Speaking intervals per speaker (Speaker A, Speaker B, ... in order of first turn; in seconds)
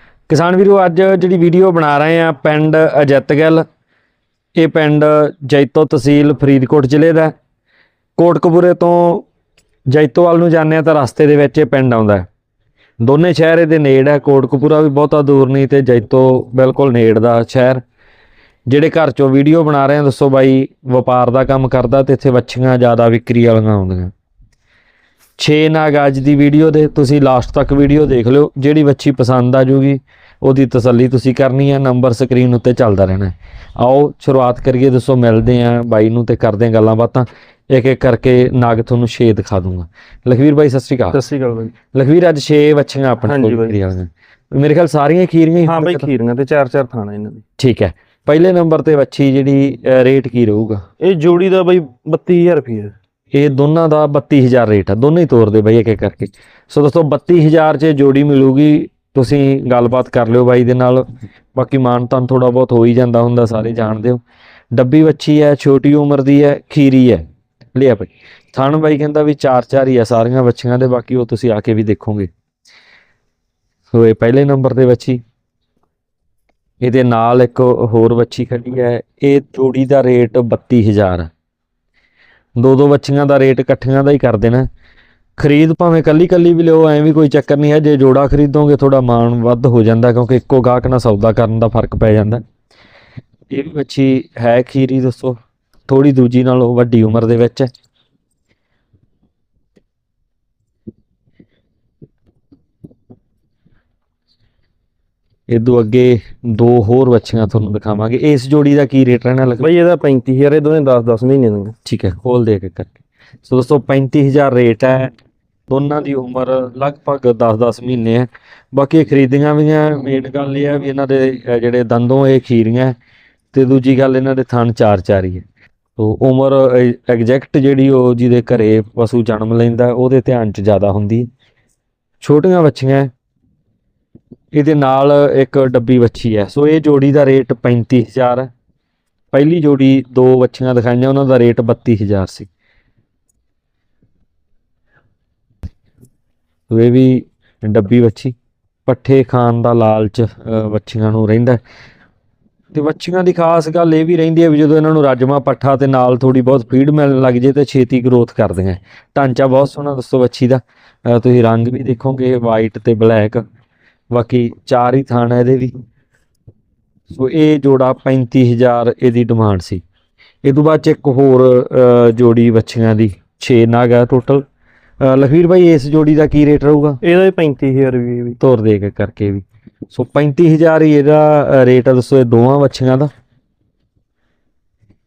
Speaker A: 0.3-3.6, 4.6-7.3, 8.2-9.3, 9.9-12.3, 13.0-17.8, 18.7-24.1, 25.4-41.2, 41.9-46.1, 47.6-50.8, 53.3-64.2, 64.7-67.2, 67.8-72.3, 73.9-75.2, 76.8-81.3, 82.6-84.7, 85.4-92.4, 93.5-95.4, 95.9-97.7, 105.5-109.7, 111.8-112.9, 113.5-115.1, 115.7-123.0, 123.5-125.5, 126.0-131.3, 132.2-133.1, 134.5-138.5, 139.3-142.5, 146.7-148.3, 148.9-151.6, 152.7-163.4, 164.1-165.8, 167.1-169.8, 170.4-174.4, 175.0-177.0, 178.4-183.1
Speaker B: 41.1-41.7, 43.3-43.8, 45.6-47.4, 51.0-53.0, 109.6-111.8, 177.0-178.4